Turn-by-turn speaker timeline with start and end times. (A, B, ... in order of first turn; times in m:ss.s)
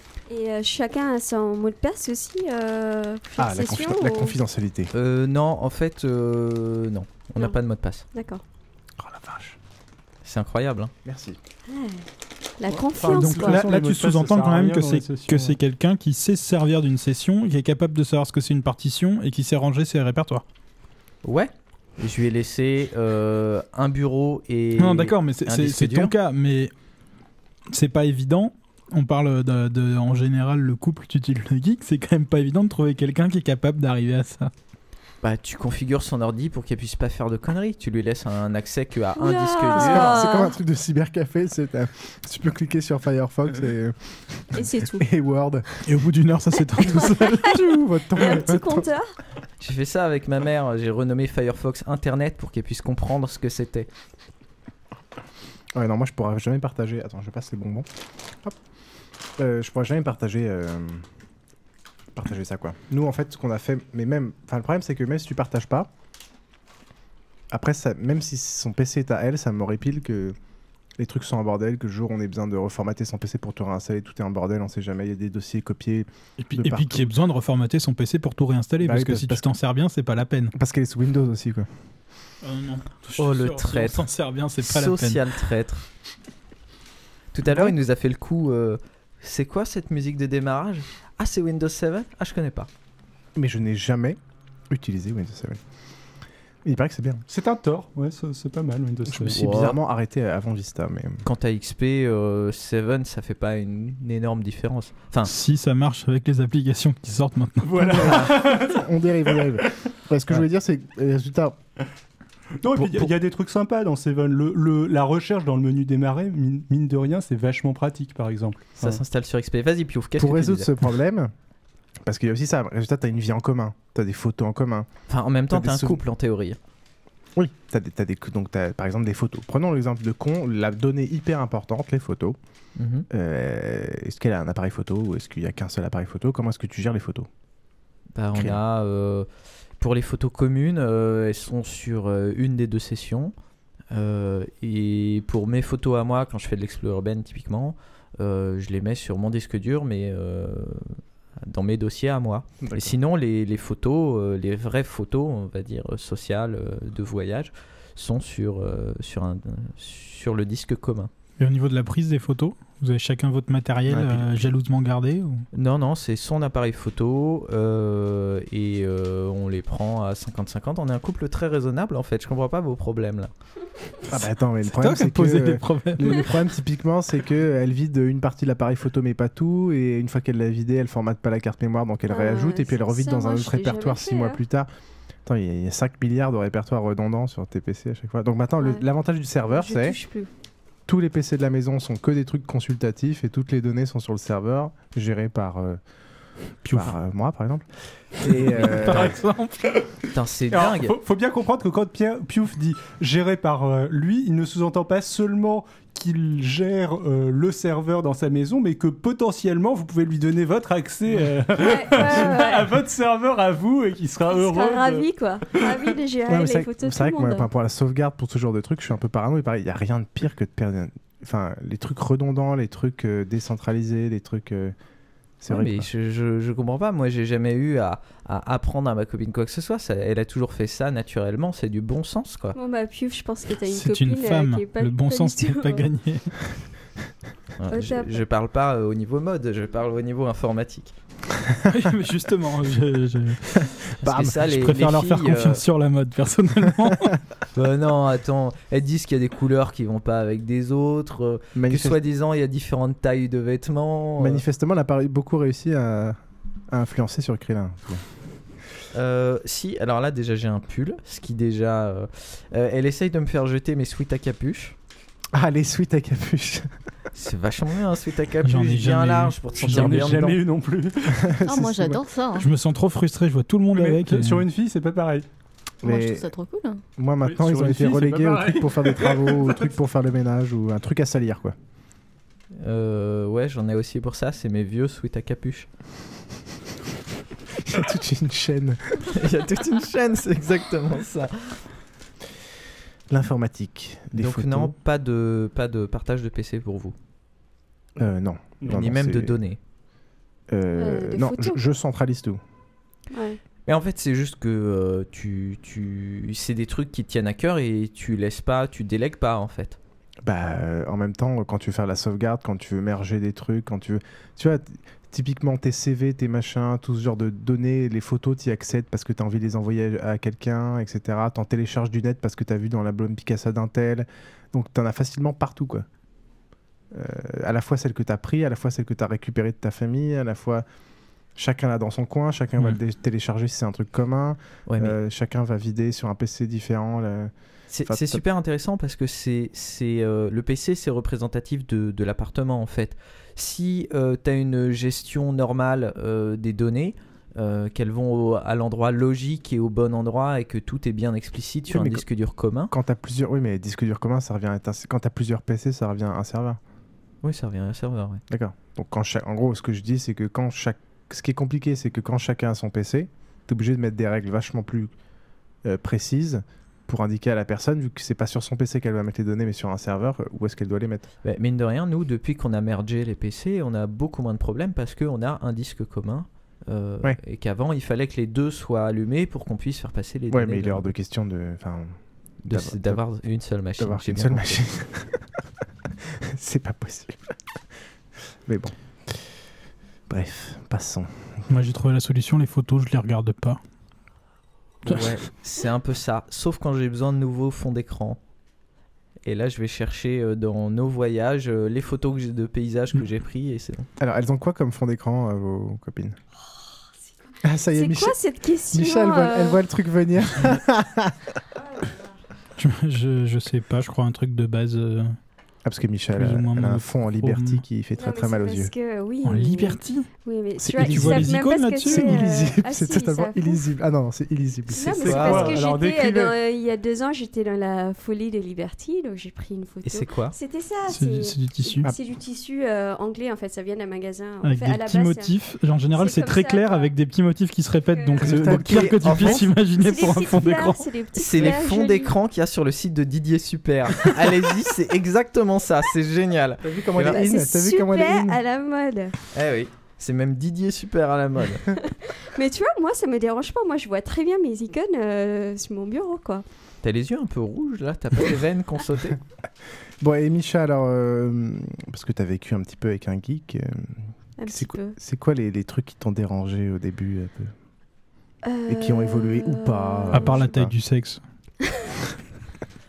0:00.3-0:04.4 A
0:03.4-0:04.9 B
0:04.9-0:08.0 C
0:08.1-0:08.4 A
0:09.0-0:09.6 B
0:10.2-0:10.9 C
0:11.0-0:11.4 B
0:11.7-0:12.0 A
0:12.6-0:13.6 A
0:12.7-0:15.6 D
0:13.1-0:20.4 E
0:21.2-0:26.1 C
0:24.8-0:26.7 E
0:27.7-0:34.5 E
0:35.2-0:40.2 C
0:39.2-0:40.5 A
0:39.7-0:45.6 B
0:44.5-0:45.0 A
0:45.8-0:47.6 E
0:46.8-0:47.6 A
0:46.8-0:48.8 B
0:48.1-0:49.1 A
0:49.6-0:53.9 C
0:55.7-0:57.9 B
0:59.4-1:01.0 B
1:02.1-1:05.9 B
1:07.5-1:10.4 B
1:11.0-1:17.1 B
1:16.4-1:20.5 E
1:18.8-1:19.5 B
1:20.5-1:21.7 B
1:22.4-1:25.2 E
1:23.2-1:24.0 C
1:24.6-1:25.8 C
1:27.3-1:32.7 C
1:27.4-1:27.7 B
1:33.4-1:34.2 B
1:34.7-1:35.6 B
1:36.6-1:37.2 B
1:37.3-1:39.6 D
1:39.1-1:41.2 B
1:39.3-1:39.8 C
1:41.2-1:45.3 C
1:45.2-1:48.2 E
1:47.6-1:48.8 D
1:47.9-1:51.6 B
1:52.6-1:59.0 D
1:52.8-1:53.1 B
1:58.8-2:00.7 C
2:00.2-2:01.3 B
2:02.0-2:04.9 B
2:05.1-2:06.6 C
2:05.5-2:06.0 B
2:07.4-2:12.4 B
2:12.8-2:13.0 C
2:13.1-2:17.3 B
2:18.2-2:19.3 C
2:18.3-2:18.6 B
2:19.8-2:23.3 C
2:23.9-2:41.1 C
2:32.6-2:32.9 B
2:41.4-2:45.4 E
2:43.9-2:44.4 B
2:45.5-2:53.3 C
2:54.1-3:04.7 B
2:54.6-2:56.3 E
3:02.1-3:04.4 A
3:05.2-3:10.0 B
3:08.6-3:08.8 A
3:09.5-3:10.3 A
3:10.9-3:15.8 B
3:16.6-3:17.6 B
3:18.2-3:19.2 B
3:18.2-3:19.7 E
3:20.1-3:21.0 C
3:20.5-3:35.1 D
3:31.6-3:32.7 A
3:34.3-3:37.5 A
3:36.3-3:44.7 B
3:45.4-3:45.9 B
3:45.5-3:52.6 C
3:52.5-3:55.9 A
3:53.7-3:56.3 E
3:57.6-4:00.9 C
3:57.7-3:58.2 A
4:01.7-4:03.7 E
4:04.0-4:04.4 B
4:04.0-4:05.6 C
4:04.4-4:07.2 E
4:07.5-4:14.4 C
4:11.5-4:12.0 B
4:14.2-4:16.2 B
4:16.7-4:18.0 B
4:18.9-4:24.8 C
4:25.3-4:26.7 B
4:27.1-4:30.4 C
4:28.4-4:30.2 E
4:29.6-4:31.2 D
4:31.2-4:32.0 B
4:31.4-4:32.5 F
4:32.4-4:34.5 E
4:33.7-4:35.2 D
4:35.8-4:36.2 B
4:35.8-4:36.8 F
4:37.0-4:41.5 B
4:37.2-4:39.6 D
4:42.6-4:45.7 C
4:47.6-4:49.1 B
4:49.1-4:51.5 C
4:53.1-4:54.7 B
4:54.1-4:56.9 C
4:58.0-4:59.4 B
4:58.6-4:58.9 D
4:58.7-4:59.6 C
5:00.5-5:02.4 B
5:00.8-5:01.6 A
5:03.1-5:03.4 A
5:03.6-5:09.8 C
5:10.2-5:25.8 B
5:26.9-5:30.6 B
5:31.4-5:37.3 B
5:34.7-5:34.9 C
5:37.7-5:52.7 C
5:37.8-5:38.2 B
5:51.7-5:52.0 B
5:52.7-5:56.6 B
5:57.2-5:58.2 C
5:58.3-6:04.9 B
6:05.6-6:11.1 B
6:11.2-6:20.9 C
6:20.3-6:22.0 B
6:22.4-6:24.6 C
6:22.5-6:23.0 B
6:23.8-6:25.2 B
6:26.0-6:27.3 B
6:28.5-6:29.3 B
6:30.1-6:31.1 B
6:31.5-6:33.6 E
6:34.8-6:38.2 C
6:39.2-6:43.9 C
6:44.0-6:46.2 B
6:47.4-6:48.1 B
6:47.7-6:49.6 A
6:48.7-6:51.2 B
6:52.6-6:55.2 E
6:55.6-6:58.7 B
6:56.1-6:57.6 E
6:58.0-7:03.6 A
6:59.2-7:00.1 E
7:00.6-7:05.5 B
7:00.8-7:02.3 E
7:04.7-7:15.3 A
7:04.8-7:06.3 D
7:05.1-7:05.6 C
7:09.8-7:10.4 C
7:10.9-7:11.8 E
7:14.4-7:20.8 E
7:15.9-7:16.9 A
7:17.9-7:18.4 A
7:18.2-7:19.4 B
7:18.3-7:19.5 C
7:19.8-7:22.2 A
7:21.2-7:27.3 C
7:26.7-7:28.4 B
7:27.0-7:29.2 A
7:29.3-7:31.7 C
7:31.8-7:36.4 A
7:36.8-7:39.2 C
7:40.0-7:44.0 B
7:44.4-7:44.9 A
7:44.5-7:47.5 B
7:48.4-7:50.4 A
7:48.7-7:50.7 B
7:50.1-7:51.2 E
7:51.6-7:51.9 A